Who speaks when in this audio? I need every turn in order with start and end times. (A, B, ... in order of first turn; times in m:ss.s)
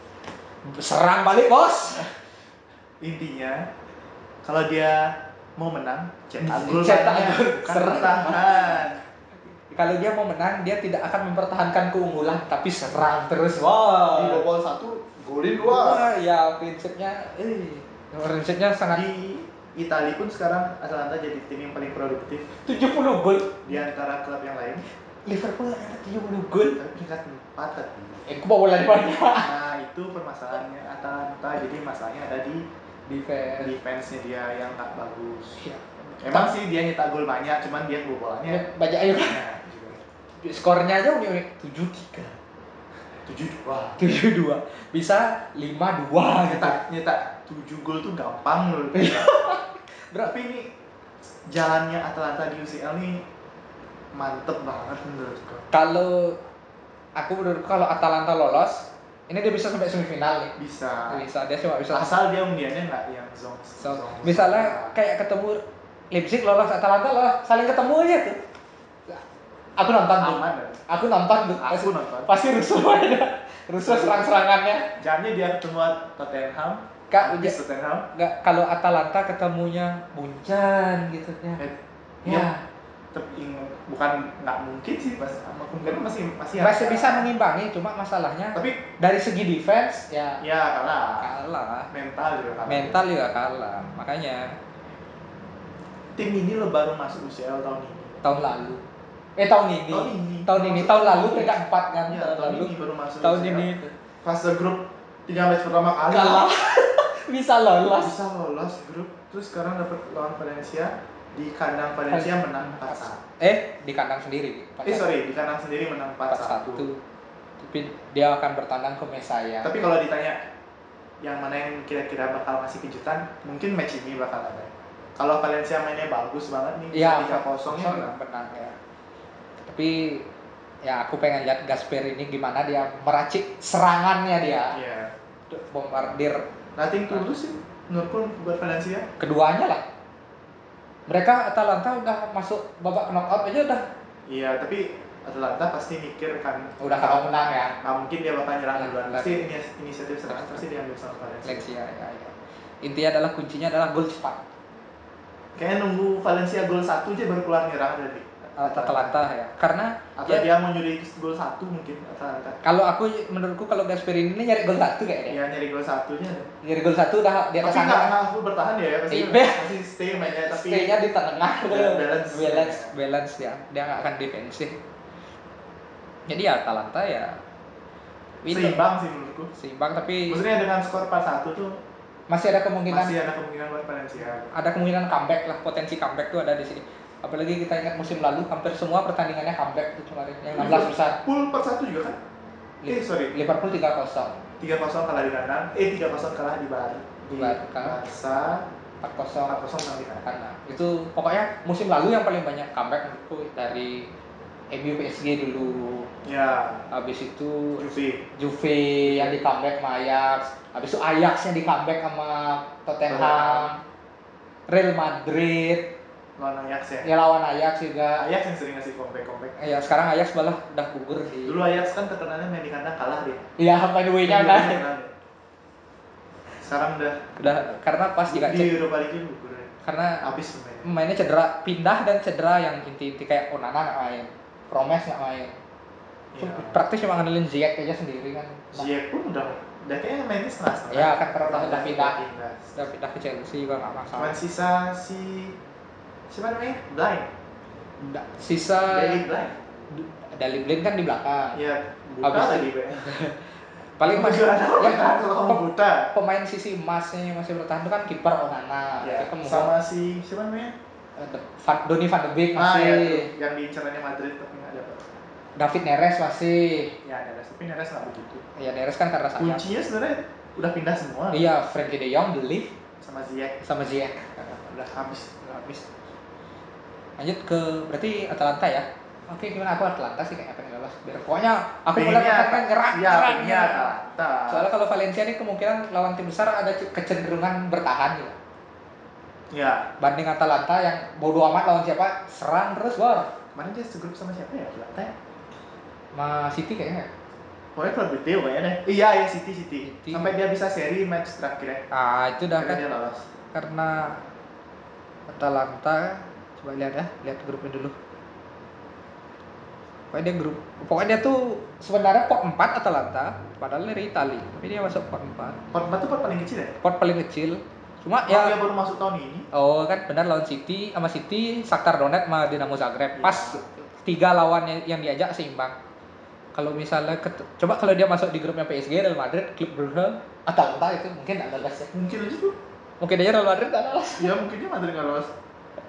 0:00.6-0:02.1 A
0:03.0-0:03.7 B
0:04.4-0:09.0 B
0:06.4-0:08.8 A
0:09.7-0:14.4 A
0:14.1-0:16.1 B
0:15.6-0:19.0 A
0:18.9-0:22.6 B
0:22.6-0:23.7 A
0:23.6-0:24.9 B
0:25.3-0:26.8 A
0:26.8-0:28.2 B
0:28.3-0:29.5 A
0:29.3-0:32.6 B
0:33.1-0:33.7 A
0:33.6-0:35.6 B
0:35.6-0:36.5 A
0:36.2-0:40.0 B
0:38.5-0:39.4 A
0:40.4-0:42.4 A
0:43.2-0:44.2 B
0:44.0-0:46.8 A
0:46.4-0:49.4 B
0:48.9-0:50.4 A
0:50.2-0:50.7 B
0:51.4-0:53.2 B
0:54.1-0:55.6 B
0:55.7-0:56.4 A
0:57.2-1:00.5 A
1:00.6-1:01.2 B
1:01.1-1:02.2 A
1:01.9-1:04.9 B
1:03.8-1:08.4 A
1:09.8-1:14.9 A
1:10.2-1:10.8 B
1:11.6-1:12.4 B
1:13.8-1:14.3 B
1:15.0-1:18.1 B
1:17.1-1:17.6 A
1:18.1-1:21.6 A
1:21.6-1:22.5 B
1:22.2-1:22.6 A
1:23.1-1:27.3 B
1:26.6-1:30.4 A
1:28.6-1:28.8 B
1:30.4-1:31.3 B
1:31.2-1:31.9 A
1:31.9-1:33.0 B
1:32.7-1:34.6 A
1:36.2-1:38.2 B
1:38.2-1:38.8 A
1:39.4-1:43.9 A
1:39.9-1:46.5 B
1:46.1-1:48.2 A
1:48.0-1:53.2 B
1:52.1-1:55.1 A
1:54.8-1:56.9 B
1:56.3-1:57.0 A
1:57.6-1:59.7 A
1:59.6-2:00.4 B
2:01.2-2:08.1 B
2:06.9-2:08.8 A
2:09.6-2:10.3 A
2:10.8-2:14.8 A
2:14.7-2:15.2 B
2:15.5-2:16.4 A
2:16.8-2:19.1 B
2:19.2-2:19.8 A
2:21.1-2:23.9 A
2:24.3-2:31.7 B
2:26.8-2:27.8 A
2:28.7-2:29.5 A
2:30.3-2:30.6 A
2:31.4-2:34.4 A
2:35.6-2:39.2 B
2:38.6-2:40.5 A
2:40.2-2:42.6 B
2:42.6-2:45.4 A
2:45.3-2:46.5 B
2:46.6-2:48.1 A
2:47.6-2:50.9 B
2:49.1-2:49.7 A
2:50.3-2:54.8 A
2:51.7-2:52.9 B
2:56.3-2:57.4 A
2:58.4-2:58.8 A
2:58.5-2:59.5 B
2:59.5-3:00.4 A
3:00.3-3:01.8 B
3:02.3-3:03.2 A
3:02.9-3:04.5 B
3:04.5-3:11.2 A
3:10.5-3:12.2 B
3:12.8-3:14.4 A
3:12.9-3:13.4 B
3:14.6-3:18.7 B
3:17.4-3:18.0 A
3:19.0-3:19.7 A
3:19.5-3:20.3 B
3:20.2-3:24.1 A
3:24.7-3:26.1 A
3:26.2-3:26.9 B
3:26.9-3:33.8 A
3:27.8-3:28.3 B
3:29.0-3:29.4 B
3:33.1-3:33.7 B
3:34.7-3:35.9 A
3:36.4-3:37.1 B
3:37.0-3:38.2 A
3:38.2-3:39.6 B
3:39.6-3:41.6 A
3:41.4-3:43.5 B
3:43.6-3:44.8 A
3:44.2-3:45.1 B
3:46.6-3:47.4 B
3:47.4-3:48.8 A
3:48.3-3:50.9 B
3:49.8-3:50.2 A
3:50.8-3:55.6 A
3:56.3-3:56.8 B
3:56.4-3:58.9 A
3:58.7-4:02.8 B
4:00.9-4:02.2 A
4:02.8-4:04.4 A
4:04.2-4:05.6 B
4:06.3-4:07.3 B
4:08.0-4:09.2 A
4:08.9-4:09.6 B
4:09.9-4:11.6 A
4:11.5-4:13.1 B
4:12.2-4:13.5 A
4:14.0-4:15.6 A
4:14.0-4:16.1 B
4:16.1-4:19.7 A
4:19.0-4:20.8 B
4:21.2-4:23.3 A
4:22.6-4:25.1 B
4:25.6-4:27.0 A
4:27.0-4:28.4 B
4:28.6-4:29.7 A
4:29.4-4:31.5 B
4:31.3-4:32.7 A
4:33.0-4:33.6 B
4:33.6-4:34.6 A
4:34.6-4:35.8 B
4:37.2-4:44.0 A
4:41.9-4:44.7 B
4:44.5-4:48.4 A
4:49.5-4:49.9 B
4:50.0-4:53.3 A
4:53.5-4:55.1 B
4:56.1-4:57.1 A
4:57.8-5:01.9 B
4:59.8-5:00.3 A
5:01.9-5:02.8 A
5:02.6-5:03.3 B
5:03.5-5:04.2 A
5:05.3-5:08.0 A
5:10.1-5:15.6 A
5:15.7-5:16.8 B
5:16.8-5:18.6 A
5:18.3-5:19.5 B
5:19.5-5:25.8 A
5:23.2-5:23.6 B
5:26.6-5:31.9 A
5:31.9-5:32.6 B
5:33.0-5:34.4 A
5:34.2-5:35.3 B